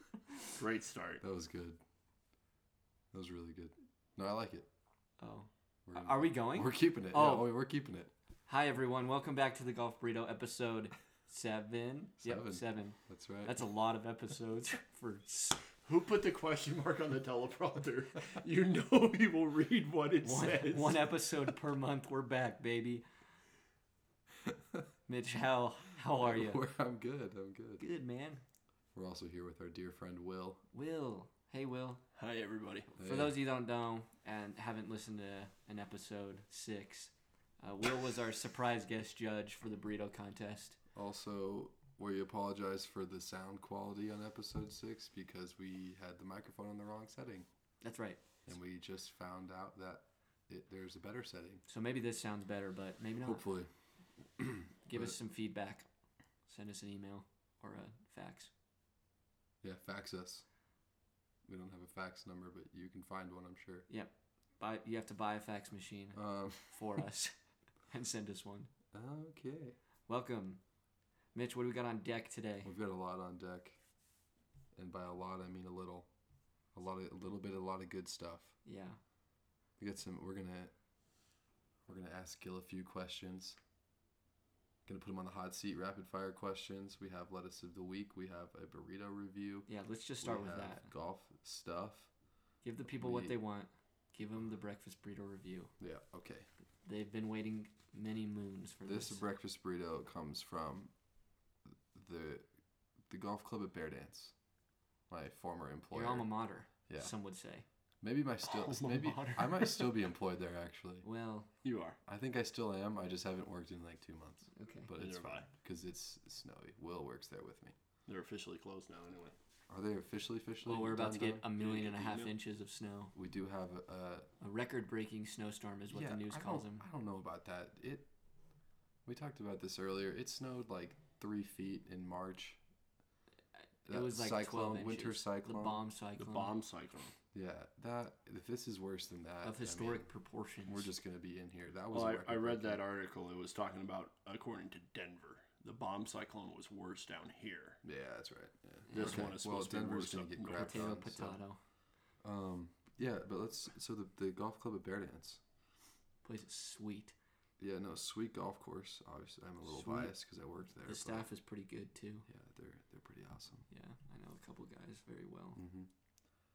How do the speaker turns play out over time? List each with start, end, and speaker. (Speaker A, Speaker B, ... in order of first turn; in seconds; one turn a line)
Speaker A: 0.5-1.2
Speaker B: 1.2-1.8
Speaker B: 3.1-4.7
Speaker C: 5.2-7.5
Speaker B: 5.9-8.1
Speaker C: 8.5-15.7
Speaker B: 12.2-13.5
Speaker A: 15.8-21.1
Speaker C: 20.2-23.0
Speaker C: 25.1-26.6
Speaker B: 26.2-27.8
Speaker C: 27.8-28.4
Speaker B: 28.9-30.6
Speaker C: 30.7-32.0
Speaker A: 32.1-32.9
Speaker B: 33.0-33.4
Speaker C: 33.0-40.8
Speaker B: 40.9-47.5
Speaker C: 47.8-48.2
Speaker B: 48.5-51.6
Speaker C: 51.7-53.4
Speaker B: 53.2-53.7
Speaker B: 54.4-55.1
Speaker C: 54.9-55.9
Speaker C: 56.5-58.5
Speaker B: 59.6-60.4
Speaker B: 61.5-63.9
Speaker C: 63.9-67.3
Speaker B: 66.1-66.7
Speaker C: 67.9-68.7
Speaker B: 68.9-69.8
Speaker C: 70.1-70.6
Speaker C: 71.3-72.7
Speaker B: 72.6-73.8
Speaker B: 74.7-76.1
Speaker B: 76.7-78.5
Speaker C: 78.6-79.0
Speaker B: 79.8-80.7
Speaker B: 81.9-83.6
Speaker B: 84.8-89.7
Speaker C: 89.7-90.9
Speaker B: 90.2-92.1
Speaker C: 92.6-95.7
Speaker B: 92.8-93.3
Speaker B: 95.8-96.5
Speaker C: 96.8-99.2
Speaker B: 98.8-100.9
Speaker B: 101.7-102.5
Speaker B: 103.1-104.3
Speaker B: 105.1-106.3
Speaker C: 105.9-107.7
Speaker B: 108.0-111.0
Speaker A: 108.5-110.0
Speaker C: 111.0-111.5
Speaker A: 111.6-112.0
Speaker B: 112.0-117.8
Speaker C: 114.5-114.9
Speaker A: 115.0-115.5
Speaker A: 118.1-119.3
Speaker B: 119.7-121.5
Speaker C: 120.6-123.1
Speaker A: 121.6-122.3
Speaker B: 123.1-124.3
Speaker C: 124.4-126.8
Speaker B: 125.9-128.1
Speaker B: 129.0-132.6
Speaker B: 133.8-135.8
Speaker C: 133.8-136.5
Speaker A: 136.2-137.1
Speaker B: 137.3-140.1
Speaker C: 139.4-140.9
Speaker B: 140.6-142.8
Speaker A: 141.9-147.8
Speaker B: 147.8-151.4
Speaker C: 148.9-149.3
Speaker A: 148.9-150.8
Speaker C: 150.6-151.6
Speaker B: 152.2-155.4
Speaker C: 156.2-157.1
Speaker B: 157.6-161.3
Speaker C: 159.7-160.1
Speaker C: 160.8-162.3
Speaker B: 162.3-163.7
Speaker C: 163.7-165.6
Speaker B: 165.6-165.9